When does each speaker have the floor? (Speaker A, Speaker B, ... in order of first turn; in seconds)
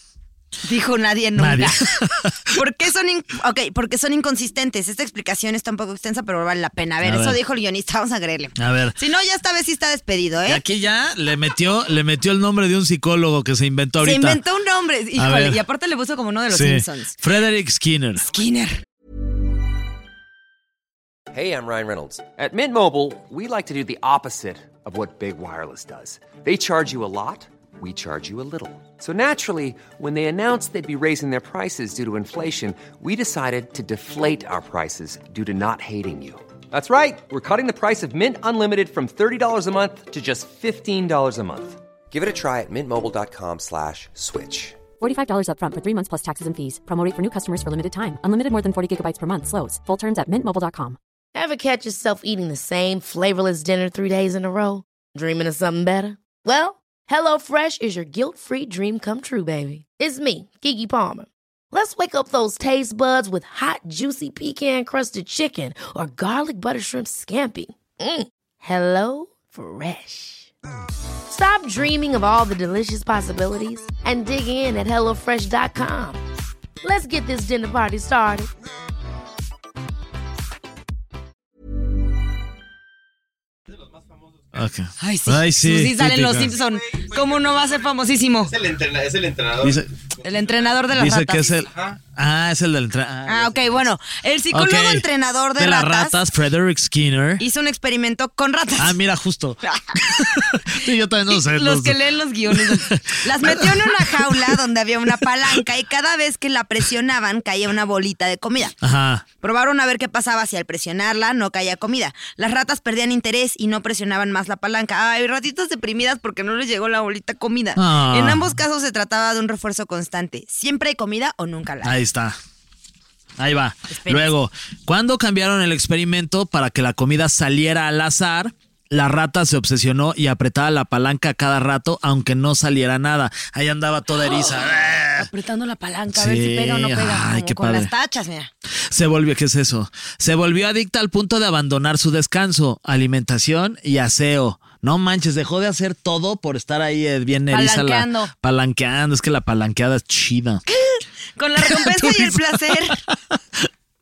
Speaker A: 0.6-1.9, 2.5-10.6, 14.0-17.2, 18.3-18.8, 85.0-88.5, 90.2-91.7, 93.2-96.2, 97.4-99.0, 99.6-108.7, 109.4-122.0, 123.9-124.3, 135.1-138.5, 147.5-148.3, 150.7-153.0
Speaker B: 1.4-2.4, 7.0-7.4, 8.6-8.9, 10.4-14.4, 15.2-15.6, 16.5-18.2, 84.5-86.5, 89.6-89.9, 90.9-93.8, 94.5-95.0, 95.6-97.4, 98.8-102.0, 102.5-104.6, 108.8-109.2, 117.8-118.6, 121.8-122.4, 123.4-135.3, 136.1-137.9, 138.9-150.6, 151.6-153.4
Speaker C: 21.3-44.8
Speaker D: 45.0-51.0
Speaker E: 51.3-70.5, 71.3-76.2, 76.8-78.5
Speaker F: 83.7-84.5, 86.6-87.8, 88.5-89.8